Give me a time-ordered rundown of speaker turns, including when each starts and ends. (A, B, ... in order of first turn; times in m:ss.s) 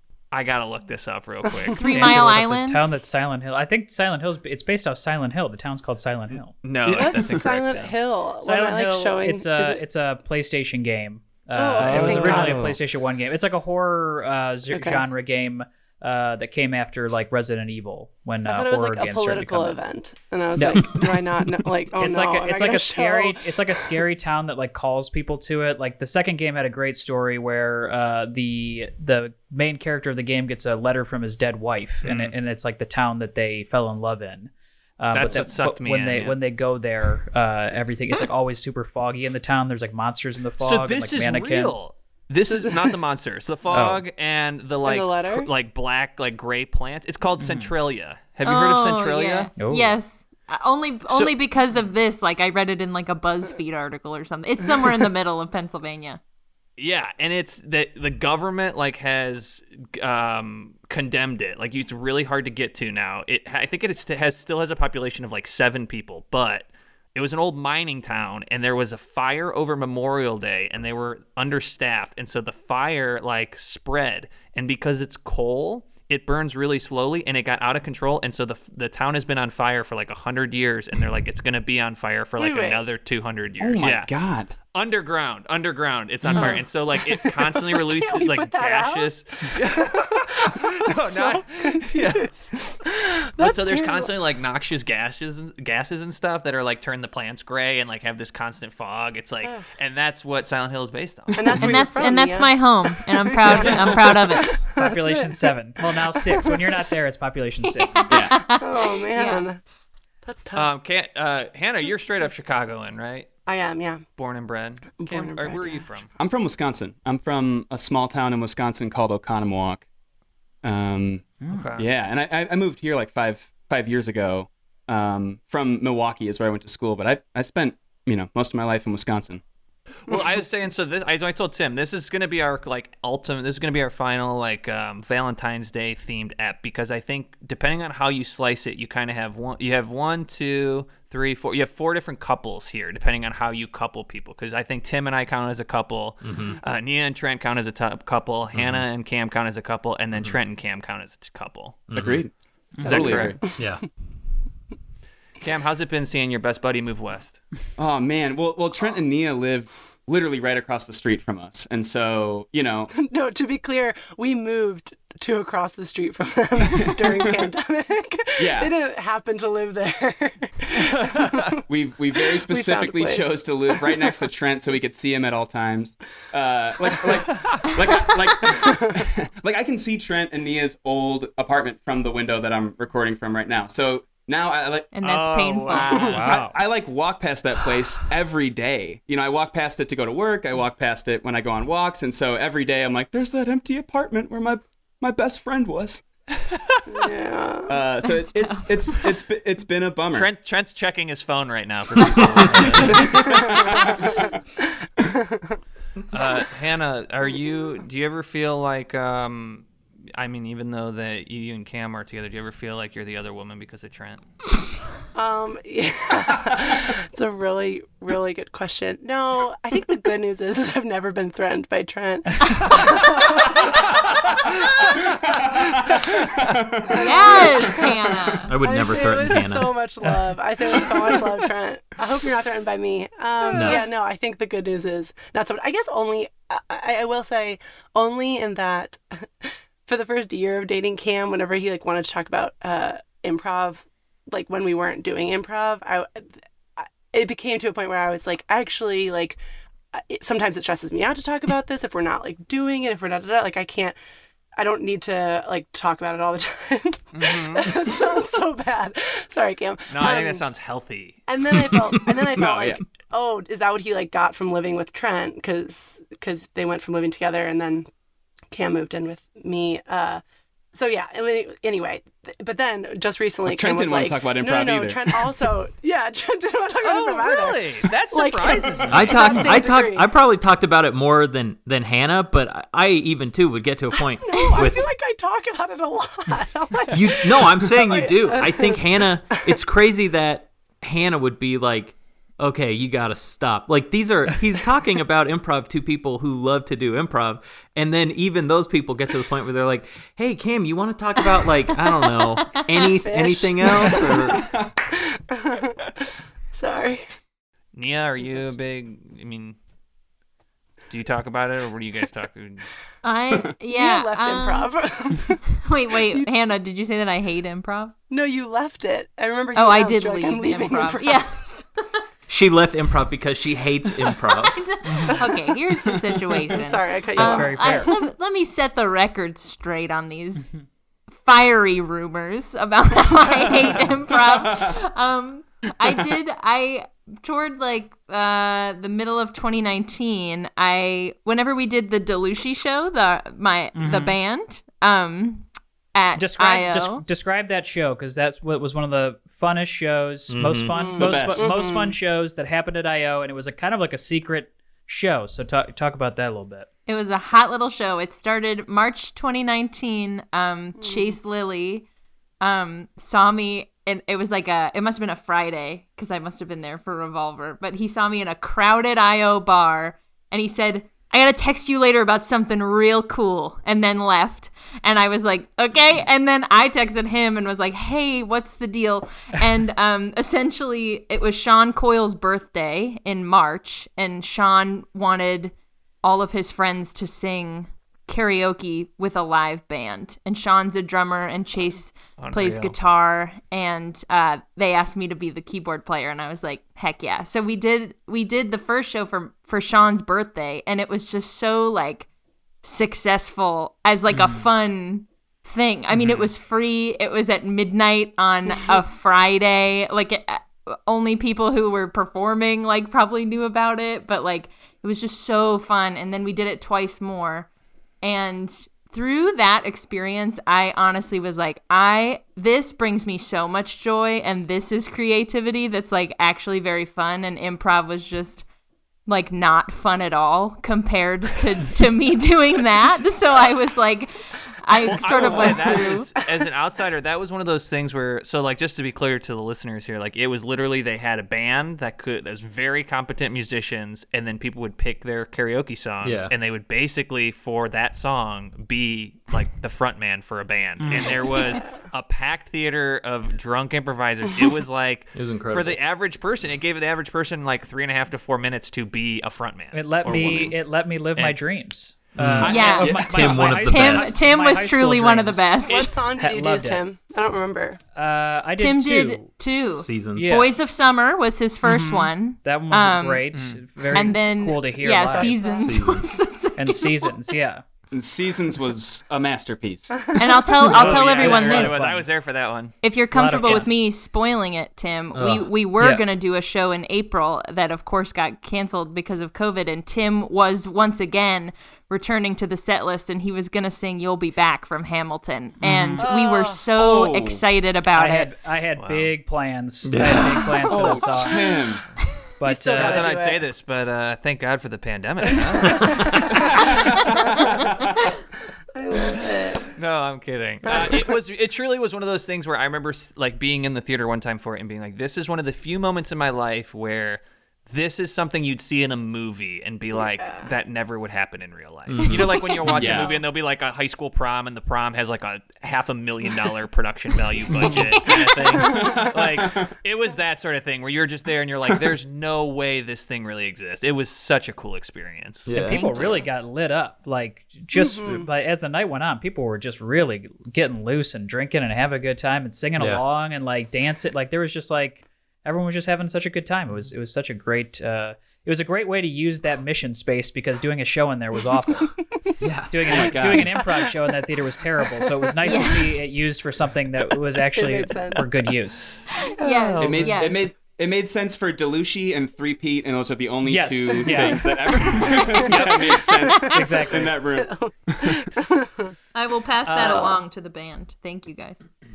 0:00.3-0:02.2 A
0:01.8-0:02.9 B
0:01.9-0:06.5 C
0:06.6-0:08.0 A
0:06.8-0:07.4 D
0:06.9-0:09.8 E
0:08.4-0:19.8 C
0:11.5-0:12.6 E
0:11.8-0:12.7 D
0:11.9-0:12.6 F
0:14.8-0:15.0 E
0:18.4-0:23.4 E
0:20.6-0:21.2 C
0:22.0-0:41.9 C
0:32.0-0:32.3 A
0:35.1-0:36.4 A
0:40.6-0:49.5 A
0:42.5-0:42.9 E
0:43.7-0:44.0 C
0:44.8-0:45.5 E
0:47.4-0:47.7 C
0:48.4-0:56.2 B
0:49.6-0:50.0 C
0:51.1-0:51.3 A
0:56.8-1:24.1 A
1:22.4-1:22.8 E
1:23.6-1:24.5 D
1:24.7-1:32.8 A
1:26.2-1:26.6 C
1:26.3-1:34.1 E
1:33.4-1:41.5 A
1:41.3-1:42.5 E
1:41.6-1:44.6 B
1:43.5-1:46.6 E
1:44.8-1:48.1 C
1:47.7-1:49.4 B
1:48.1-1:48.5 D
1:48.4-1:49.6 E
1:50.2-1:50.7 E
1:50.5-1:53.3 A
1:53.4-1:54.0 E
1:54.1-1:56.1 A
1:55.0-1:55.9 E
1:56.2-1:59.9 D
2:00.6-2:09.4 D
2:01.5-2:01.9 A
2:10.0-2:31.8 A
2:26.2-2:26.6 F
2:28.5-2:28.8 F
2:31.9-2:32.2 F
2:32.0-2:33.5 D
2:32.8-2:33.3 C
2:32.8-2:33.4 A
2:33.6-2:33.8 F
2:35.4-2:37.4 A
2:37.8-2:42.9 D
2:42.9-2:51.6 E
2:46.8-2:47.1 D
2:48.4-2:48.7 D
2:51.1-2:51.4 A
2:51.6-3:04.9 D
2:52.3-2:53.9 E
2:58.4-2:59.0 E
3:04.9-3:06.2 B
3:05.0-3:06.4 A
3:05.7-3:16.0 D
3:06.1-3:06.6 C
3:16.8-3:17.8 E
3:17.7-3:20.3 D
3:18.0-3:19.2 B
3:20.1-3:23.4 A
3:22.5-3:24.3 D
3:23.0-3:24.3 E
3:25.0-3:25.6 E
3:26.1-3:34.2 A
3:35.1-3:43.9 E
3:42.7-3:43.2 A
3:45.0-3:47.5 D
3:46.9-4:09.4 E
3:46.9-3:48.5 B
3:48.1-3:48.4 D
3:48.5-3:49.8 F
3:53.5-3:53.9 F
4:09.9-4:14.0 E
4:14.6-4:20.4 E
4:17.1-4:17.8 A
4:19.9-4:21.2 A
4:21.3-4:27.9 E
4:22.3-4:22.8 D
4:28.5-4:30.2 E
4:30.7-4:40.1 E
4:33.4-4:35.3 D
4:36.8-4:39.6 A
4:38.9-4:44.9 F
4:44.0-4:49.5 E
4:46.9-5:04.4 F
5:02.1-5:02.8 B
5:02.8-5:04.4 E
5:04.4-5:04.7 D
5:04.9-5:07.1 E
5:07.7-5:09.6 A
5:10.9-5:12.7 A
5:13.0-5:14.7 B
5:13.7-5:16.3 E
5:15.5-5:17.9 B
5:18.1-5:21.2 E
5:19.5-5:21.8 B
5:22.3-5:24.7 F
5:24.3-5:30.5 B
5:24.8-5:25.2 C
5:25.1-5:25.5 E
5:26.4-5:28.0 E
5:27.2-5:27.9 C
5:31.1-5:47.0 B
5:34.2-5:34.7 D
5:43.8-5:44.2 C
5:46.2-5:56.7 C
5:50.3-5:50.7 F
5:50.7-5:51.9 E
5:51.0-5:51.6 D
5:56.9-6:01.8 B
6:00.8-6:01.1 E
6:02.4-6:42.1 B
6:32.2-6:32.7 A
6:42.6-6:57.5 B
6:44.1-6:44.5 C
6:46.0-6:46.3 A
6:58.0-7:08.4 B
7:09.1-7:16.1 B
7:14.7-7:40.6 A
7:26.0-7:26.3 F
7:30.8-7:31.2 C
7:35.1-7:35.8 F
7:39.7-7:46.8 C
7:42.2-7:44.2 F
7:42.4-7:43.0 A
7:42.4-7:45.9 B
7:45.6-7:47.8 E
7:47.9-7:49.2 C
7:48.6-7:53.2 B
7:49.7-7:50.4 F
7:50.1-7:50.5 C
7:51.6-7:55.6 C
7:53.3-7:53.6 A
7:53.9-7:57.1 B
7:55.2-7:55.6 E
7:55.6-7:56.2 F
7:56.6-7:57.6 C
7:57.9-8:00.2 D
8:00.2-8:01.8 B
8:00.6-8:02.1 C
8:00.6-8:02.7 A
8:02.8-8:18.3 B
8:03.1-8:03.7 C
8:05.1-8:05.5 F
8:15.6-8:16.1 C
8:16.0-8:16.6 E
8:16.7-8:17.4 D
8:17.9-8:21.5 C
8:18.8-8:19.1 A
8:19.8-8:20.5 F
8:20.6-8:21.8 D
8:22.4-8:23.1 C
8:22.4-8:23.4 E
8:22.7-8:26.6 A
8:26.4-8:27.9 D
8:28.7-8:29.7 E
8:29.7-8:55.5 A
8:30.6-8:31.0 E
8:39.9-8:40.5 E
8:41.9-8:42.5 F
8:42.7-8:43.2 D
8:48.6-8:49.6 D
8:55.5-8:55.9 F
8:55.5-9:12.0 C
8:55.6-8:56.3 B
8:57.7-8:58.3 E
9:02.8-9:03.0 F
9:12.4-9:13.3 F
9:12.7-9:18.9 C
9:12.8-9:13.6 D
9:15.4-9:16.0 B
9:17.5-9:18.3 E
9:19.1-9:20.5 B
9:19.4-9:19.9 E
9:19.7-9:20.1 A
9:19.8-9:20.1 C
9:19.8-9:28.2 D
9:23.4-9:27.2 C
9:27.3-9:28.9 E
9:29.1-9:31.6 B
9:29.7-9:30.0 A
9:29.8-9:30.1 E